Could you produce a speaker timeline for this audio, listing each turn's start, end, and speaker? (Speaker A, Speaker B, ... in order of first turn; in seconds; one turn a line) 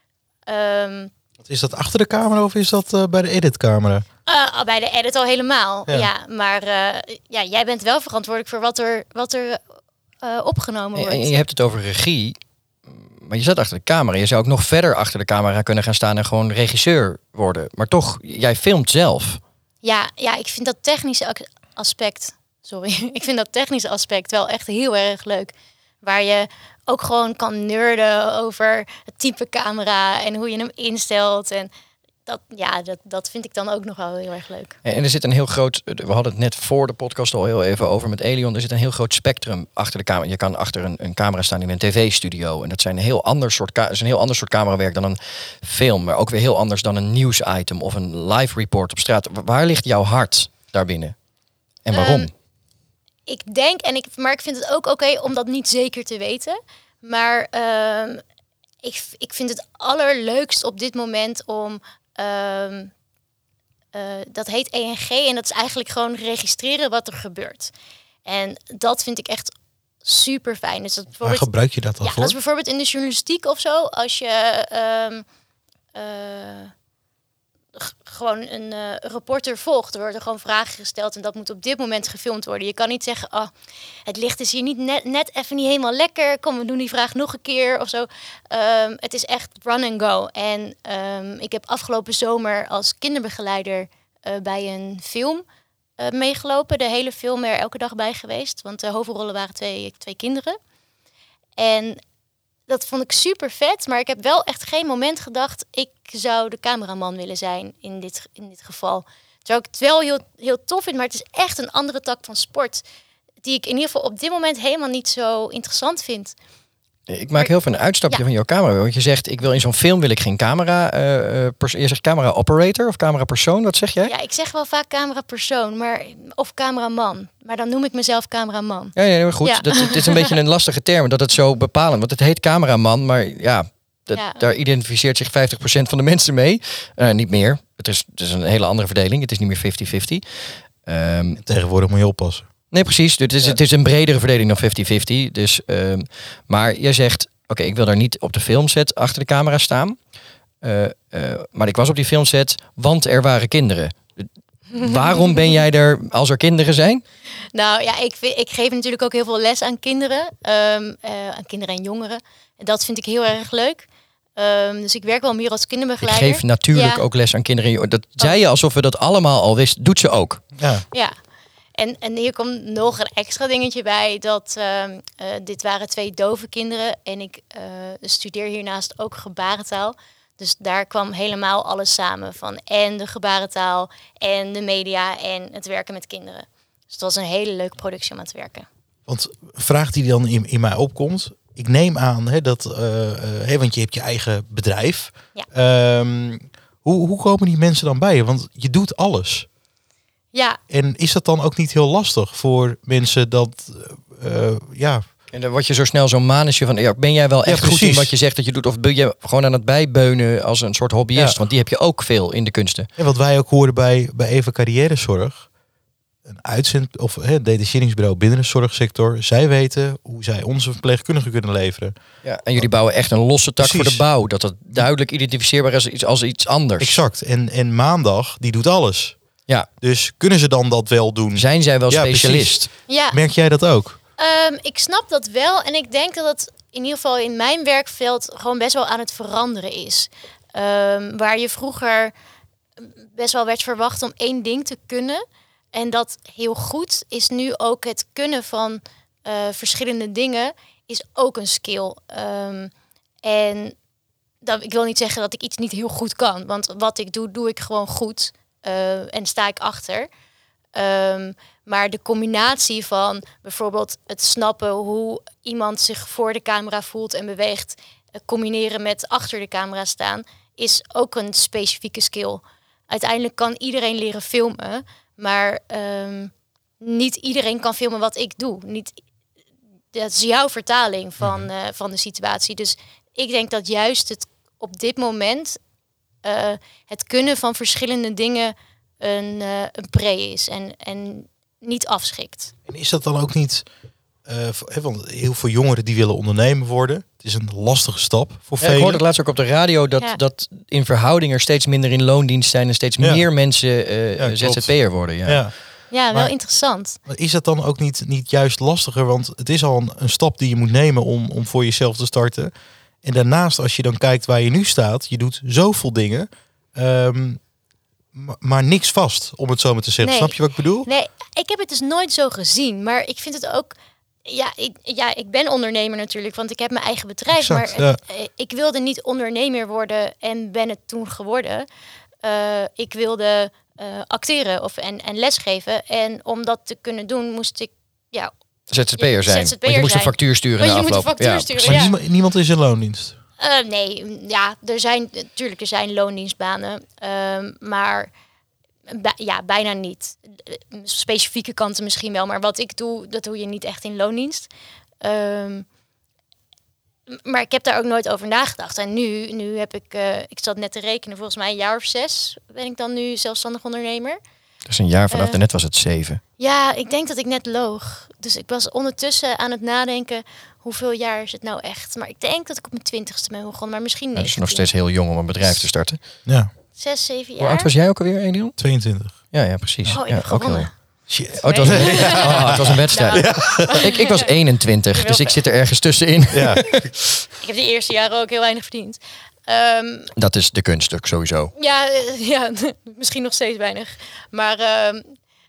Speaker A: 0.5-1.1
Speaker B: 1.4-4.0
Speaker A: 4.2-9.6
Speaker A: 10.2-11.3
Speaker C: 10.9-12.3
Speaker C: 12.9-19.4
Speaker A: 19.8-31.7
Speaker A: 32.2-34.8
Speaker C: 34.8-51.1
Speaker C: 51.8-52.3
Speaker A: 51.9-52.3
Speaker A: 53.3-58.2
Speaker A: 58.8-62.9
Speaker A: 63.9-67.7
Speaker A: 68.2-71.5
Speaker B: 71.2-72.3
Speaker A: 72.0-75.2
Speaker A: 75.9-76.7
Speaker A: 77.7-83.5
Speaker A: 84.0-95.4
Speaker A: 96.0-100.6
Speaker A: 101.6-102.0
Speaker A: 102.7-112.8
Speaker A: 113.4-116.3
Speaker C: 117.1-124.1
Speaker A: 124.0-130.3
Speaker C: 128.9-141.4
Speaker A: 134.1-134.4
Speaker B: 141.4-142.5
Speaker C: 142.7-150.0
Speaker C: 150.6-157.0
Speaker A: 154.7-155.6
Speaker A: 157.5-167.0
Speaker C: 166.0-170.4
Speaker B: 170.6-170.8
Speaker A: 170.9-171.2
Speaker A: 171.8-188.7
Speaker B: 189.1-199.5
Speaker A: 200.3-200.6
Speaker B: 200.7-205.0
Speaker C: 205.3-212.9
Speaker B: 207.4-208.1
Speaker B: 213.0-215.5
Speaker B: 216.2-221.9
Speaker C: 222.2-227.0
Speaker B: 223.6-224.0
Speaker B: 226.8-229.2
Speaker B: 229.8-234.0
Speaker C: 231.3-232.7
Speaker A: 232.9-233.2
Speaker A: 234.2-242.1
Speaker A: 242.8-252.7
Speaker A: 253.2-253.8
Speaker A: 254.4-260.1
Speaker A: 260.7-278.9
Speaker A: 279.9-285.6
Speaker B: 281.2-281.5
Speaker A: 286.2-292.5
Speaker B: 292.6-293.6
Speaker B: 294.2-299.0
Speaker C: 298.6-305.5
Speaker B: 303.0-303.2
Speaker B: 304.2-305.5
Speaker A: 305.9-307.0
Speaker B: 306.1-306.3
Speaker B: 307.0-312.5
Speaker B: 313.0-317.4
Speaker B: 318.1-320.9
Speaker A: 320.0-323.7
Speaker A: 324.2-331.7
Speaker B: 327.4-328.0
Speaker A: 332.2-338.3
Speaker C: 338.7-341.9
Speaker A: 339.0-341.9
Speaker B: 341.7-343.1
Speaker A: 343.4-348.1
Speaker A: 348.9-354.5
Speaker A: 355.0-355.6
Speaker A: 357.1-364.2
Speaker C: 364.7-366.2
Speaker A: 365.1-365.4
Speaker A: 366.4-374.7
Speaker C: 374.1-376.0
Speaker A: 376.7-377.7
Speaker C: 377.4-380.7
Speaker B: 378.6-379.2
Speaker A: 379.9-380.7
Speaker B: 381.1-383.9
Speaker C: 381.3-387.2
Speaker A: 381.4-384.3
Speaker A: 384.9-385.4
Speaker B: 386.3-386.9
Speaker A: 387.4-390.1
Speaker C: 390.1-391.5
Speaker A: 391.5-395.1